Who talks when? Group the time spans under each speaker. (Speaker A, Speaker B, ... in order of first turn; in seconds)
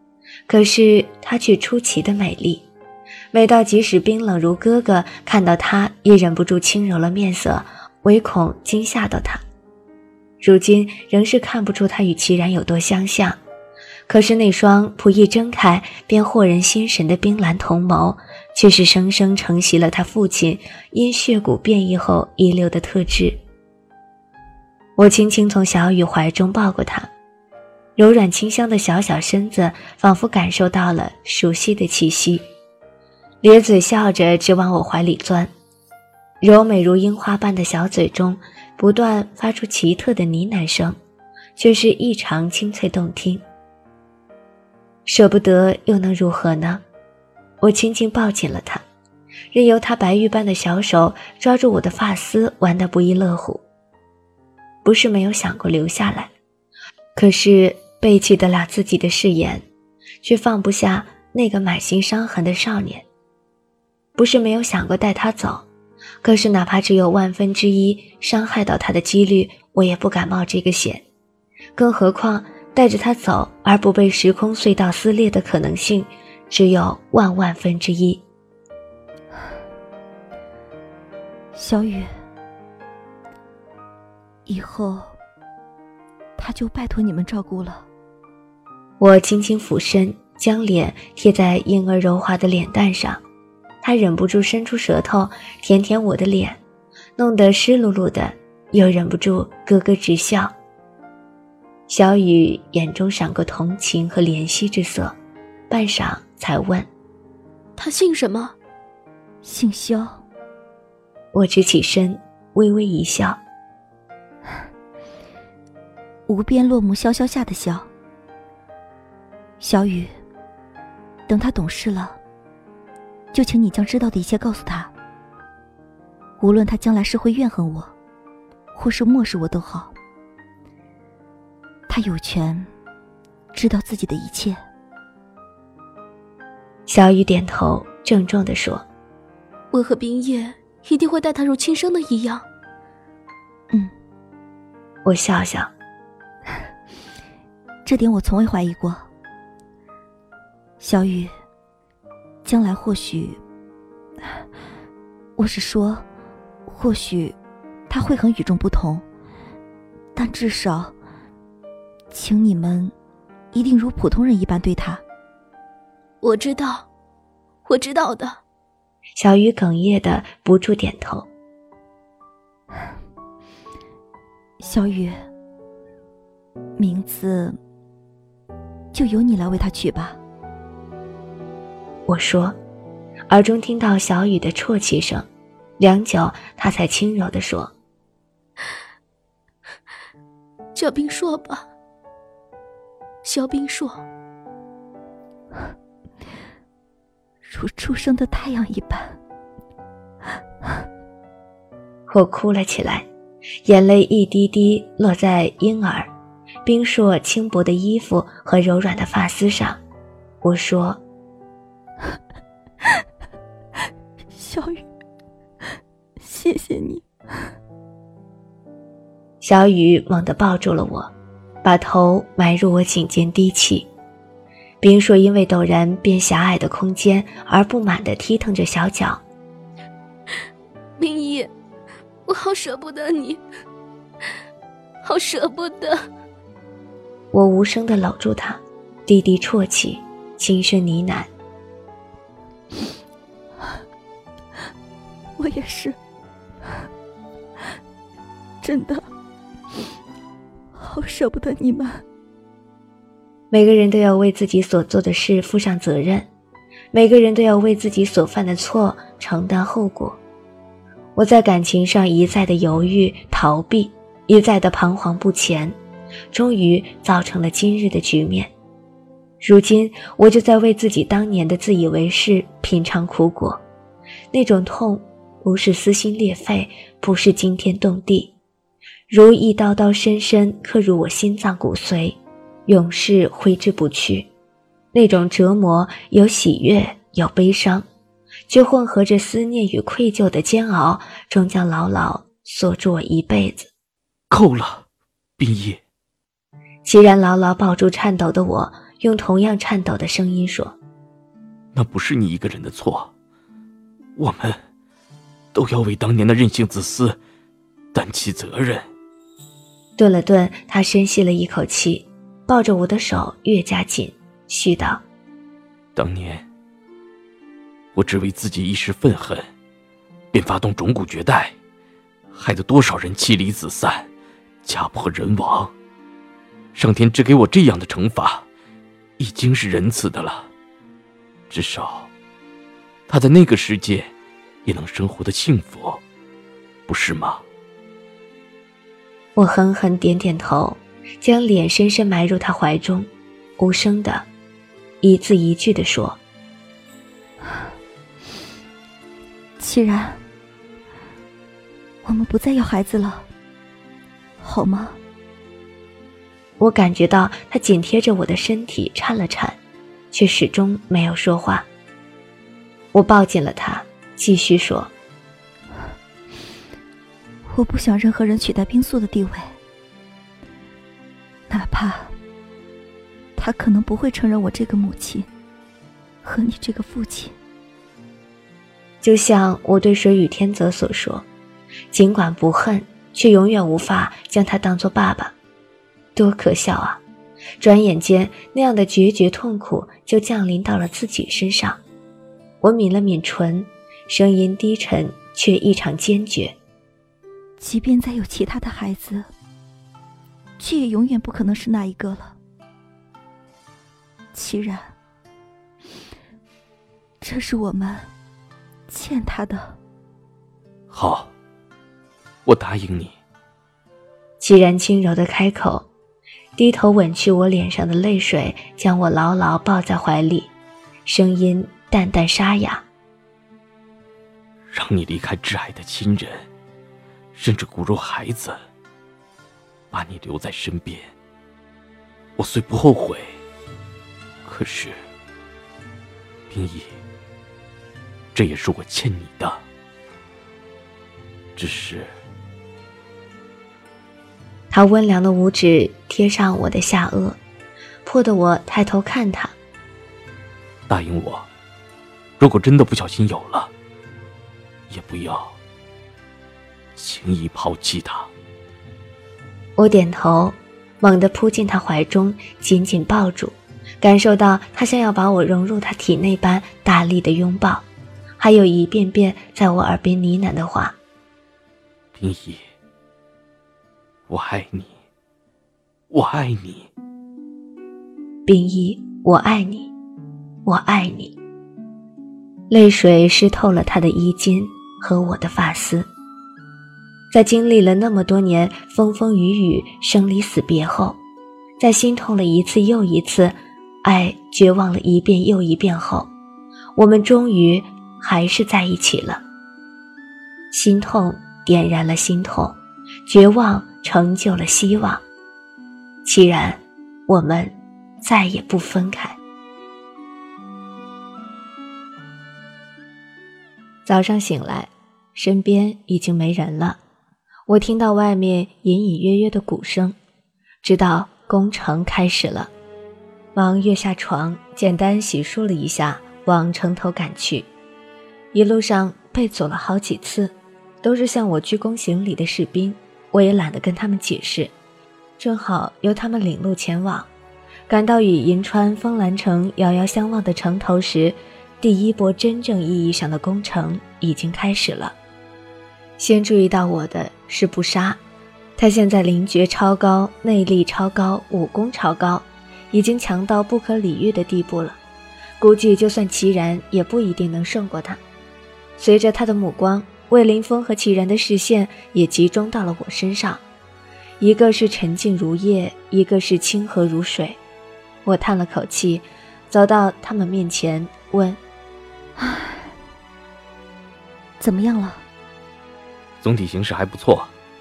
Speaker A: 0.5-2.7, 3.3-9.4, 10.4-13.4, 14.1-23.4, 25.0-27.1, 28.0-32.5, 33.4-35.5, 36.4-41.0, 41.6-43.4, 45.1-46.8, 47.6-48.8, 49.5-53.6, 54.9-56.3, 57.2-59.6, 60.2-63.1, 64.2-65.7, 66.2-71.0, 71.8-78.2, 89.0-93.2, 93.8-96.6, 97.2-100.5, 101.9-105.2, 105.7-106.9, 111.3-113.4, 136.9-138.9, 145.0-145.7, 169.2-171.3, 182.1-182.6, 183.3-185.3, 185.8-187.7, 202.1-203.1, 203.7-206.1, 206.7-209.8, 210.4-211.0, 219.4-221.1, 221.6-223.9, 224.8-229.2, 237.3-241.3, 253.5-256.3, 256.9-260.2, 261.2-265.8, 266.3-268.5, 269.4-273.6, 274.3-278.4, 279.1-284.3, 284.9-287.9, 288.5-293.7, 296.9-300.8, 310.0-315.0, 339.4-344.3, 345.0-346.2, 356.6-359.6, 360.1-361.7, 362.9-364.9, 379.0-381.3, 381.9-385.4, 386.2-387.0, 387.6-391.8, 392.6-396.6, 414.4-415.9, 416.6-420.5, 421.1-422.9, 444.7-447.4, 448.1-449.6, 459.8-467.9, 468.4-471.0, 478.5-479.9, 480.7-481.4, 482.7-486.1, 487.3-491.2, 491.8-496.3, 497.0-499.4, 500.7-502.8, 503.3-505.2, 506.2-509.4, 514.1-517.0, 517.7-520.2, 520.8-522.7, 523.5-527.7, 528.5-534.7, 535.4-537.3, 537.9-545.1, 546.2-548.2, 548.8-555.0, 555.6-558.2, 559.0-563.6, 564.4-567.6, 568.2-571.6
Speaker B: 81.5-82.1, 84.5-85.2, 86.4-87.9, 109.4-110.2, 116.3-117.9, 119.6-120.1, 121.3-122.2, 123.3-124.9, 126.4-127.9, 128.8-129.9, 131.9-132.7, 133.5-134.6, 147.8-149.1, 150.8-151.3, 152.4-153.4, 155.4-156.1, 156.7-157.4, 157.9-159.1, 160.2-160.9, 162.1-162.9, 163.5-165.0, 174.6-175.2, 176.8-177.6, 178.9-180.2, 197.4-199.2, 214.3-214.9, 216.2-217.5, 245.4-246.0, 248.6-249.1, 250.8-252.0, 349.6-350.2, 352.1-353.3, 354.4-355.0, 367.5-369.5, 371.5-372.1, 373.4-375.3, 376.2-377.3, 397.6-399.3, 400.6-402.4, 404.3-404.9, 407.2-408.1, 408.9-409.8, 574.6-575.2
Speaker C: 107.8-108.5, 139.7-142.4, 166.2-166.9, 167.7-168.4, 190.8-191.7, 193.2-194.0, 231.0-231.5, 232.3-233.4, 235.0-236.0
Speaker D: 294.3-294.9, 295.4-295.8, 301.7-303.1, 304.2-304.6, 305.5-307.2, 307.9-308.9, 316.0-316.5, 317.9-319.5, 320.3-321.5, 322.3-324.1, 324.6-325.7, 326.7-328.5, 329.2-330.5, 331.5-332.1, 333.1-334.1, 334.6-336.0, 336.9-337.4, 410.9-411.3, 412.5-413.1, 424.7-426.5, 427.3-428.6, 429.9-431.1, 432.4-433.4, 434.4-435.0, 436.5-437.0, 438.3-439.6, 441.6-442.1, 450.9-451.5, 452.4-453.7, 454.9-455.6, 456.9-458.3, 472.2-472.6, 474.3-474.9, 476.1-476.9, 576.4-577.5